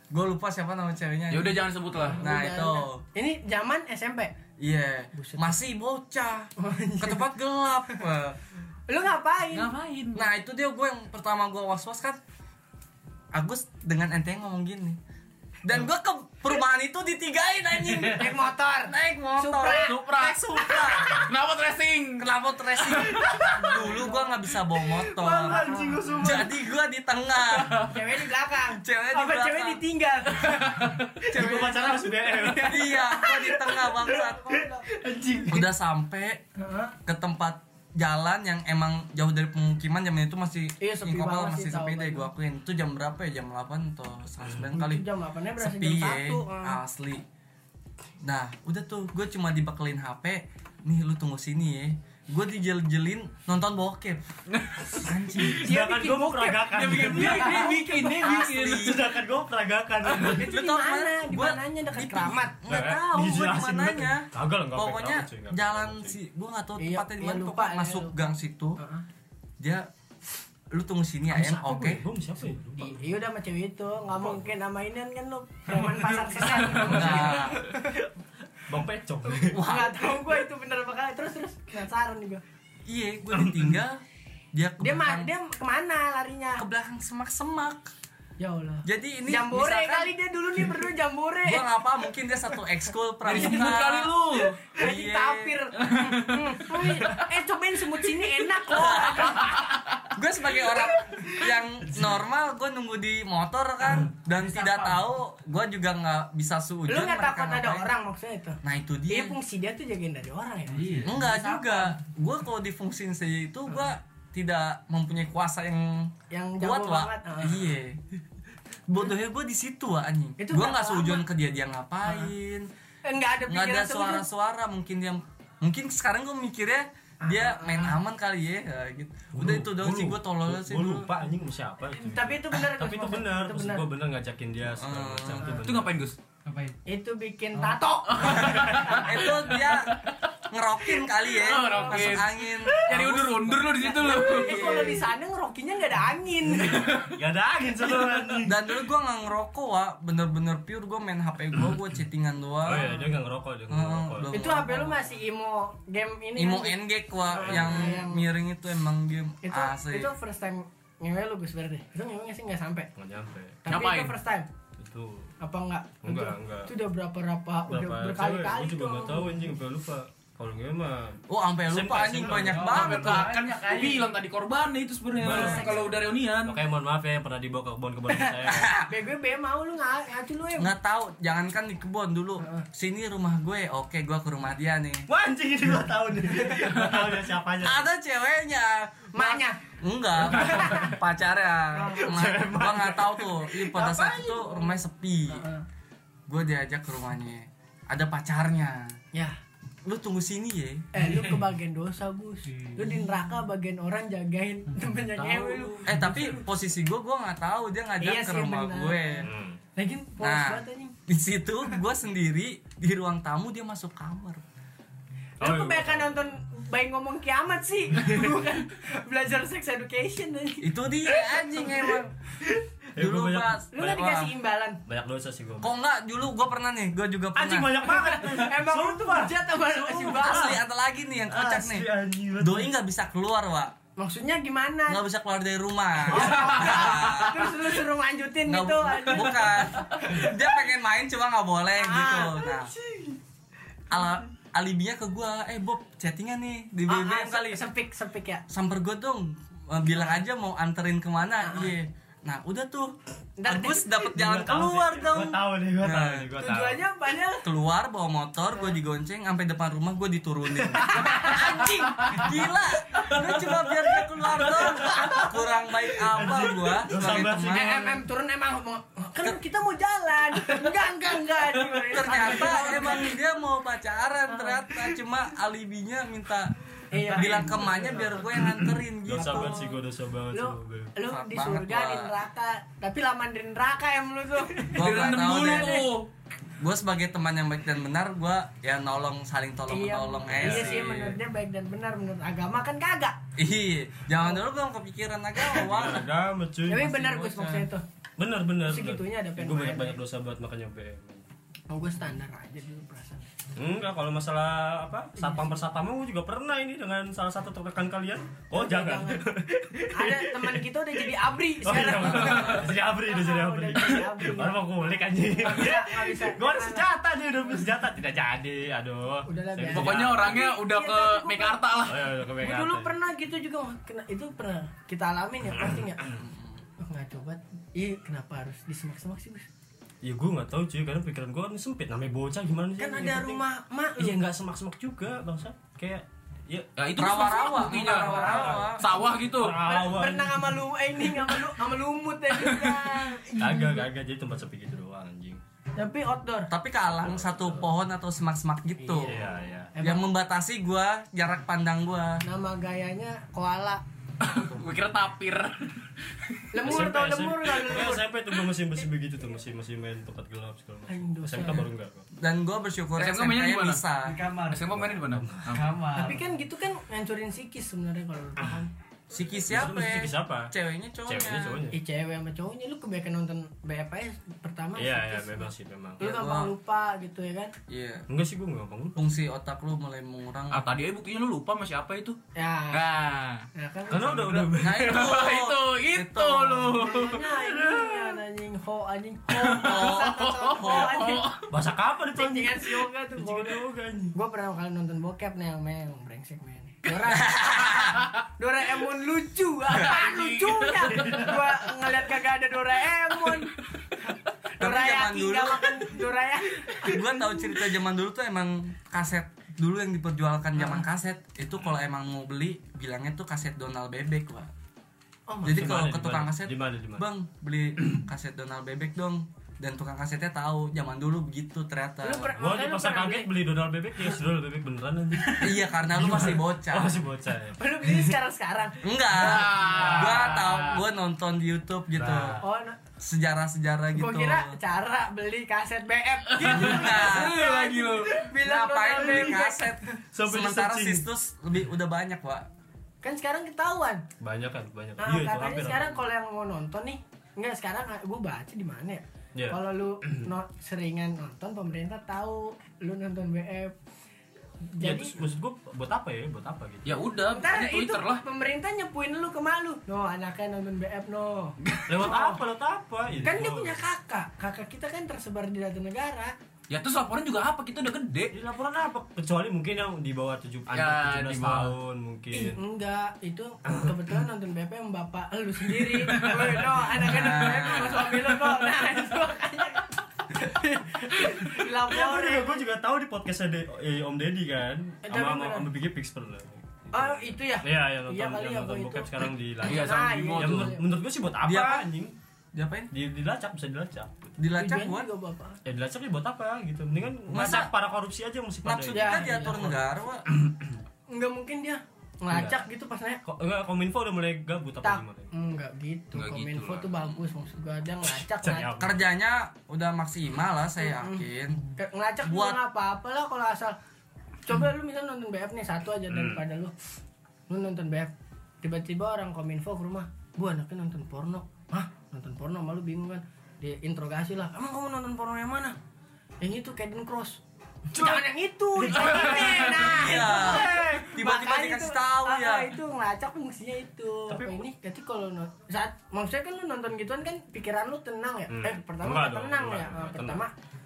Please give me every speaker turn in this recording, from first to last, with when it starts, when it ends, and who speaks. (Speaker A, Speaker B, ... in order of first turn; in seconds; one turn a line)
Speaker A: 0.1-3.0
Speaker B: 1.3-2.2
Speaker C: 2.1-4.3
Speaker A: 4.6-8.4
Speaker C: 5.1-5.6
Speaker C: 6.6-7.3
Speaker C: 8.9-9.7
Speaker B: 9.5-10.3
Speaker A: 10.1-12.2
Speaker A: 13.3-15.0
Speaker A: 15.6-21.3
Speaker C: 18.1-20.0
Speaker B: 19.7-22.2
Speaker C: 20.8-21.1
Speaker A: 22.2-25.6
Speaker B: 22.8-23.8
Speaker C: 23.6-24.3
Speaker D: 25.2-26.5
Speaker C: 25.2-26.4
Speaker A: 26.2-27.9
Speaker C: 27.8-35.6
Speaker A: 28.8-29.8
Speaker D: 30.8-33.0
Speaker A: 31.3-31.8
Speaker A: 32.6-34.6
Speaker A: 35.5-36.4
Speaker C: 36.6-36.9
Speaker A: 37.0-47.2
Speaker C: 40.8-42.3
Speaker C: 44.7-46.8
Speaker A: 48.2-54.2
Speaker A: 55.0-55.6
Speaker D: 55.3-57.7
Speaker C: 55.4-58.4
Speaker B: 56.7-59.0
Speaker A: 58.2-59.0
Speaker D: 58.6-60.5
Speaker C: 60.2-63.4
Speaker A: 60.4-68.8
Speaker D: 62.7-66.2
Speaker C: 66.8-68.1
Speaker C: 68.8-69.0
Speaker A: 69.6-69.9
Speaker A: 70.7-72.0
Speaker D: 71.3-73.1
Speaker C: 72.4-78.0
Speaker A: 76.8-77.6
Speaker D: 76.9-77.2
Speaker D: 78.7-79.6
Speaker C: 79.5-82.4
Speaker A: 79.5-80.2
Speaker A: 82.9-85.3
Speaker C: 84.8-86.6
Speaker A: 86.6-87.9
Speaker C: 88.4-91.8
Speaker A: 88.8-90.1
Speaker A: 91.4-94.2
Speaker B: 93.2-94.6
Speaker C: 93.3-93.9
Speaker C: 94.7-99.6
Speaker A: 94.7-95.5
Speaker B: 95.8-97.3
Speaker A: 98.7-99.5
Speaker B: 99.4-100.0
Speaker A: 100.1-107.9
Speaker C: 106.9-111.6
Speaker A: 108.6-109.4
Speaker E: 110.7-111.8
Speaker A: 111.0-118.0
Speaker C: 116.3-117.7
Speaker A: 118.9-122.7
Speaker C: 120.4-121.2
Speaker C: 123.0-124.2
Speaker A: 123.5-131.1
Speaker C: 127.2-128.0
Speaker D: 129.3-136.0
Speaker C: 131.9-133.9
Speaker A: 134.8-135.5
Speaker B: 135.5-136.2
Speaker E: 136.5-136.7
Speaker C: 136.8-139.5
Speaker B: 138.1-140.1
Speaker A: 138.2-145.0
Speaker B: 141.0-144.9
Speaker C: 141.7-142.2
Speaker C: 143.8-147.0
Speaker D: 146.5-148.6
Speaker A: 148.4-152.9
Speaker D: 152.6-154.3
Speaker A: 153.7-155.1
Speaker C: 154.3-156.8
Speaker A: 156.3-160.1
Speaker C: 157.3-158.3
Speaker D: 157.3-157.9
Speaker C: 159.4-162.9
Speaker D: 162.9-163.6
Speaker C: 163.6-164.5
Speaker B: 163.7-164.2
Speaker D: 164.8-165.3
Speaker C: 165.4-169.5
Speaker D: 166.0-166.7
Speaker D: 167.7-172.8
Speaker A: 171.3-173.3
Speaker B: 172.4-176.6
Speaker E: 172.4-174.1
Speaker D: 175.2-178.7
Speaker C: 175.2-175.9
Speaker C: 178.1-180.7
Speaker A: 178.5-178.9
Speaker A: 180.6-185.1
Speaker D: 185.1-187.8
Speaker A: 187.6-195.4
Speaker C: 189.1-189.6
Speaker C: 190.3-190.9
Speaker C: 191.7-192.4
Speaker D: 192.0-193.9
Speaker C: 193.8-195.6
Speaker A: 196.3-198.9
Speaker A: 199.8-200.9
Speaker C: 200.9-206.2
Speaker E: 201.0-201.5
Speaker D: 205.2-205.7
Speaker A: 205.8-209.3
Speaker C: 208.0-210.9
Speaker D: 209.2-209.6
Speaker A: 210.2-214.4
Speaker D: 215.4-216.3
Speaker C: 215.4-220.7
Speaker A: 220.6-222.1
Speaker D: 222.4-223.5
Speaker A: 223.0-224.3
Speaker C: 223.7-224.8
Speaker D: 224.9-225.7
Speaker A: 225.6-227.7
Speaker D: 227.3-230.6
Speaker C: 227.8-230.6
Speaker A: 230.2-231.9
Speaker D: 231.3-232.7
Speaker A: 232.4-233.7
Speaker C: 234.0-235.0
Speaker A: 234.9-237.6
Speaker C: 236.1-240.4
Speaker A: 238.4-242.7
Speaker C: 241.8-243.2
Speaker A: 243.9-247.6
Speaker C: 246.9-248.4
Speaker A: 248.5-252.9
Speaker C: 251.4-251.7
Speaker C: 253.4-254.1
Speaker A: 253.4-256.3
Speaker D: 254.1-256.8
Speaker C: 256.4-257.4
Speaker A: 257.4-267.8
Speaker C: 260.7-262.3
Speaker D: 264.4-265.1
Speaker C: 264.8-265.3
Speaker D: 266.1-268.0
Speaker C: 267.0-273.2
Speaker A: 271.8-279.6
Speaker C: 274.3-274.8
Speaker C: 276.9-278.2
Speaker D: 278.4-280.9
Speaker C: 279.1-279.8
Speaker C: 280.3-285.9
Speaker A: 281.0-282.1
Speaker A: 284.7-285.9
Speaker B: 284.8-286.1
Speaker A: 286.6-291.2
Speaker C: 289.7-293.2
Speaker D: 290.2-290.9
Speaker A: 293.4-296.1
Speaker D: 295.5-297.1
Speaker C: 296.7-297.8
Speaker A: 296.9-297.7
Speaker D: 298.2-301.2
Speaker C: 298.7-300.0
Speaker C: 301.7-303.2
Speaker D: 303.6-320.5
Speaker C: 305.2-305.6
Speaker C: 308.5-309.2
Speaker C: 309.9-314.6
Speaker C: 315.4-316.9
Speaker C: 319.2-321.8
Speaker B: 319.7-322.0
Speaker D: 321.8-322.9
Speaker C: 322.4-326.1
Speaker D: 325.6-326.1
Speaker A: 326.1-326.6
Speaker C: 326.8-329.5
Speaker D: 330.0-333.4
Speaker C: 332.8-334.2
Speaker D: 334.0-336.7
Speaker B: 336.8-339.6
Speaker A: 336.9-338.9
Speaker C: 337.8-338.6
Speaker D: 338.0-340.6
Speaker C: 339.6-343.9
Speaker B: 342.4-342.8
Speaker D: 343.4-345.4
Speaker C: 345.8-346.5
Speaker A: 346.5-349.2
Speaker D: 346.9-347.7
Speaker C: 348.8-350.1
Speaker D: 349.0-349.7
Speaker A: 349.8-352.2
Speaker C: 352.2-353.8
Speaker B: 354.2-356.4
Speaker C: 356.5-358.1
Speaker D: 356.6-362.1
Speaker C: 360.9-361.7
Speaker A: 362.1-364.2
Speaker B: 363.0-363.8
Speaker E: 364.1-364.7
Speaker B: 364.5-365.7
Speaker D: 364.7-365.6
Speaker E: 365.5-366.2
Speaker C: 365.9-368.7
Speaker A: 369.1-371.6
Speaker D: 369.5-370.5
Speaker D: 371.1-371.8
Speaker C: 371.7-375.5
Speaker D: 374.8-376.0
Speaker C: 376.0-377.5
Speaker A: 376.0-376.5
Speaker A: 377.7-378.1
Speaker D: 378.1-379.0
Speaker A: 378.9-380.7
Speaker B: 380.5-382.2
Speaker C: 382.3-382.9
Speaker B: 382.7-383.4
Speaker C: 383.5-384.6
Speaker D: 383.9-385.3
Speaker A: 384.6-386.9
Speaker B: 384.7-387.2
Speaker C: 386.8-391.4
Speaker D: 387.2-388.2
Speaker B: 389.3-391.4
Speaker A: 389.6-391.0
Speaker D: 391.5-394.1
Speaker C: 392.1-393.6
Speaker C: 394.1-403.6
Speaker A: 397.0-398.0
Speaker B: 399.7-401.3
Speaker D: 400.9-401.3
Speaker C: 404.1-407.5
Speaker A: 404.6-405.9
Speaker A: 406.8-414.5
Speaker C: 410.6-410.8
Speaker C: 415.3-415.6
Speaker A: 415.4-422.3
Speaker D: 415.4-417.1
Speaker C: 422.0-423.3
Speaker D: 422.4-428.1
Speaker A: 425.4-427.0
Speaker C: 427.6-428.8
Speaker A: 428.8-432.4
Speaker B: 429.1-430.8
Speaker D: 431.9-432.4
Speaker C: 432.4-432.8
Speaker A: 433.0-434.6
Speaker C: 433.9-439.8
Speaker B: 436.3-438.2
Speaker A: 436.5-437.4
Speaker A: 438.4-442.5
Speaker D: 439.0-439.4
Speaker D: 440.1-441.0
Speaker C: 443.0-444.1
Speaker D: 444.2-446.0
Speaker C: 445.0-453.7
Speaker D: 449.3-450.2
Speaker C: 454.7-455.1
Speaker D: 454.8-457.1
Speaker B: 456.8-458.2
Speaker C: 457.3-462.4
Speaker B: 461.6-462.3
Speaker D: 461.9-463.8
Speaker C: 463.2-466.3
Speaker B: 466.7-468.3
Speaker D: 468.3-472.6
Speaker B: 470.7-471.7
Speaker C: 472.3-482.6
Speaker D: 473.7-474.1
Speaker D: 475.9-476.5
Speaker A: 477.0-478.2
Speaker D: 481.4-492.1
Speaker C: 485.0-485.7
Speaker C: 486.9-490.9
Speaker B: 489.6-490.8
Speaker A: 491.4-491.9
Speaker A: 492.5-492.9
Speaker D: 492.9-494.4
Speaker A: 494.4-495.1
Speaker C: 494.6-495.6
Speaker D: 495.6-499.8
Speaker A: 497.3-497.7
Speaker A: 498.6-500.2
Speaker C: 498.9-499.7
Speaker D: 500.3-500.8
Speaker C: 501.1-503.2
Speaker D: 502.3-502.6
Speaker D: 503.2-505.3
Speaker C: 504.8-508.7
Speaker B: 506.1-507.0
Speaker D: 508.2-509.0
Speaker A: 508.8-511.6
Speaker C: 510.8-513.8
Speaker A: 512.2-512.6
Speaker C: 514.5-516.7
Speaker D: 516.1-516.4
Speaker C: 517.5-525.8
Speaker C: 526.4-540.5
Speaker D: 527.9-528.2
Speaker D: 528.8-530.9
Speaker B: 529.1-529.5
Speaker A: 529.8-532.7
Speaker D: 534.3-534.6
Speaker D: 538.5-540.4